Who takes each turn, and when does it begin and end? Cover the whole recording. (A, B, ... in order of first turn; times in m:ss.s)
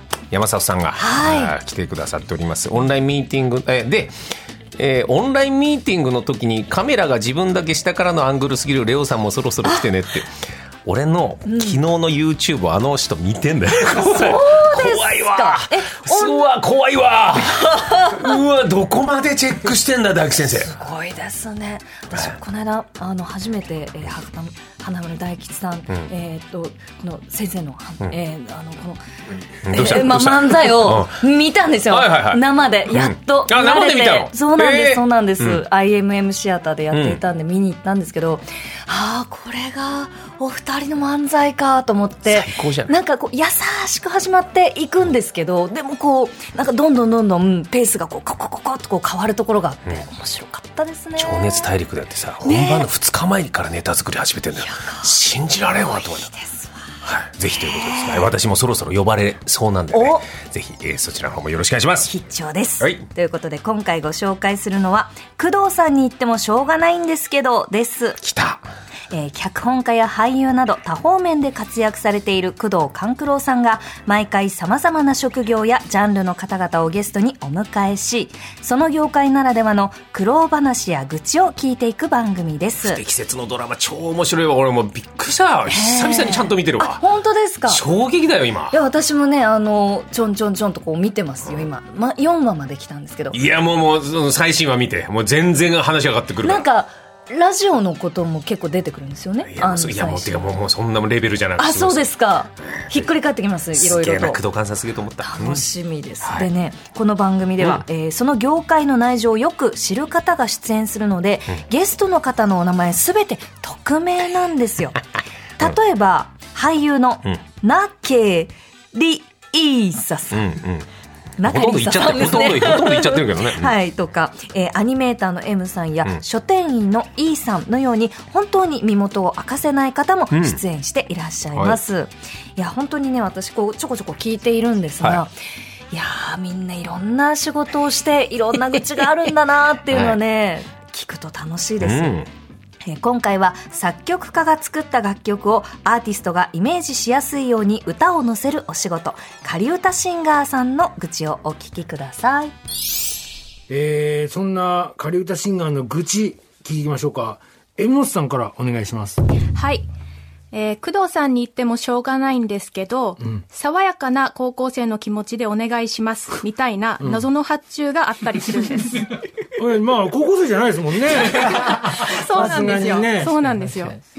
0:00.3-0:04.1 A
0:01.0-0:01.6 B
0:04.8-0:10.3 A
0:10.8-0:20.7 A
0:11.4-0:11.8 B
0:13.8-0:16.5 B
0:17.7-0:18.4 B
0:20.4-0:29.0 B
0:29.6-0:31.2 A
0:29.7-0:51.7 B
0:31.9-0:35.6 A
0:36.9-0:37.2 A
0:42.3-0:42.9 A
0:51.2-0:56.3 A
0:52.4-0:52.9 B
0:54.5-0:57.0 B
0:57.0-1:02.1 A
0:57.5-0:58.3 B
0:59.9-1:00.3 B
1:02.1-1:08.2 B
1:08.2-1:08.6 A
1:09.1-1:23.0 B
1:22.8-1:27.0 A
1:25.7-1:27.8 B
1:27.7-1:28.8 A
1:28.7-1:33.4 B
1:33.3-1:36.7 A
1:36.4-1:40.6 B
1:39.4-1:42.1 A
1:41.6-1:44.4 B
1:42.8-1:43.1 A
1:43.8-1:45.7 A
1:45.2-1:55.0 B
1:55.6-2:00.6 B
2:00.3-2:00.9 A
2:01.4-2:15.3 B
2:01.4-2:03.7 A
2:10.3-2:10.6 A
2:11.5-2:11.8 A
2:15.9-2:22.2 B
2:19.9-2:20.2 A
2:21.8-2:22.3 A
2:22.9-2:32.5 B
2:33.7-2:39.2 C
2:39.5-2:39.9 D
2:40.5-2:49.2 D
2:47.0-2:47.3 C
2:49.6-2:53.4 C
2:52.0-2:54.0 D